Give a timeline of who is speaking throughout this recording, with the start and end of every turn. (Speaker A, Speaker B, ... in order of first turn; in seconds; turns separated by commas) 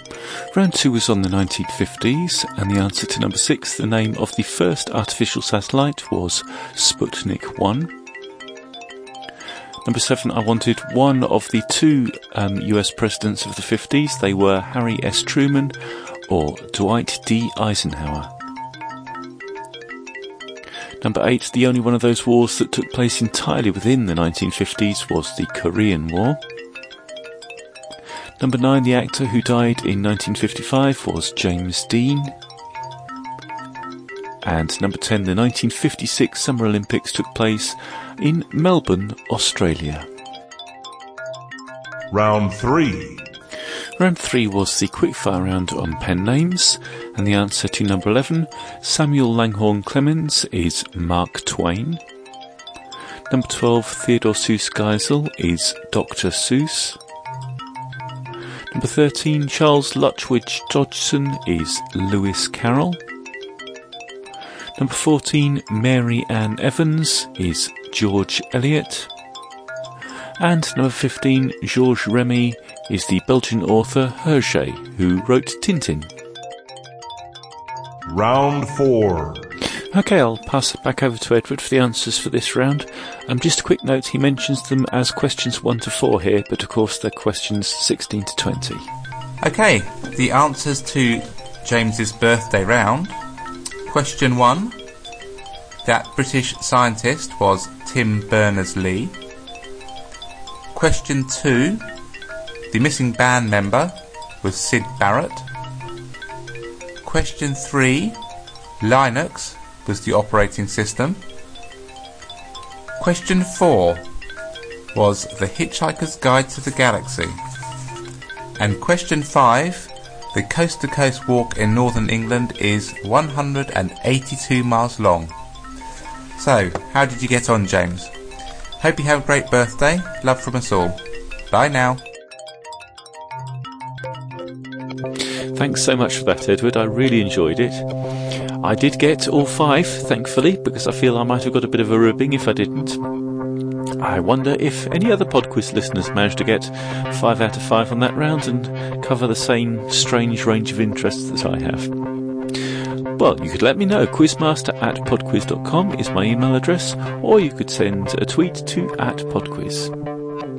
Speaker A: 0.5-7.9, Speaker A: 9.8-15.8, Speaker A: 16.3-18.3, Speaker A: 21.0-26.4, Speaker A: 28.4-32.3, Speaker A: 34.4-40.1, Speaker B: 42.1-43.0, Speaker A: 44.0-52.0, Speaker A: 53.3-57.0, Speaker A: 58.7-63.0, Speaker A: 64.8-69.1, Speaker A: 70.4-76.1, Speaker B: 78.1-79.5, Speaker A: 79.9-88.9, Speaker C: 89.4-93.2, Speaker C: 93.9-94.8, Speaker C: 95.8-99.1, Speaker C: 100.7-101.8, Speaker C: 102.7-105.5, Speaker C: 107.0-108.2, Speaker C: 108.8-111.2, Speaker C: 113.0-114.0, Speaker C: 114.9-117.4, Speaker C: 118.6-125.3, Speaker C: 126.4-128.1, Speaker C: 128.8-131.0, Speaker C: 131.5-132.0, Speaker A: 135.5-137.9, Speaker A: 138.6-143.0, Speaker A: 144.0-151.9, Speaker A: 153.2-159.9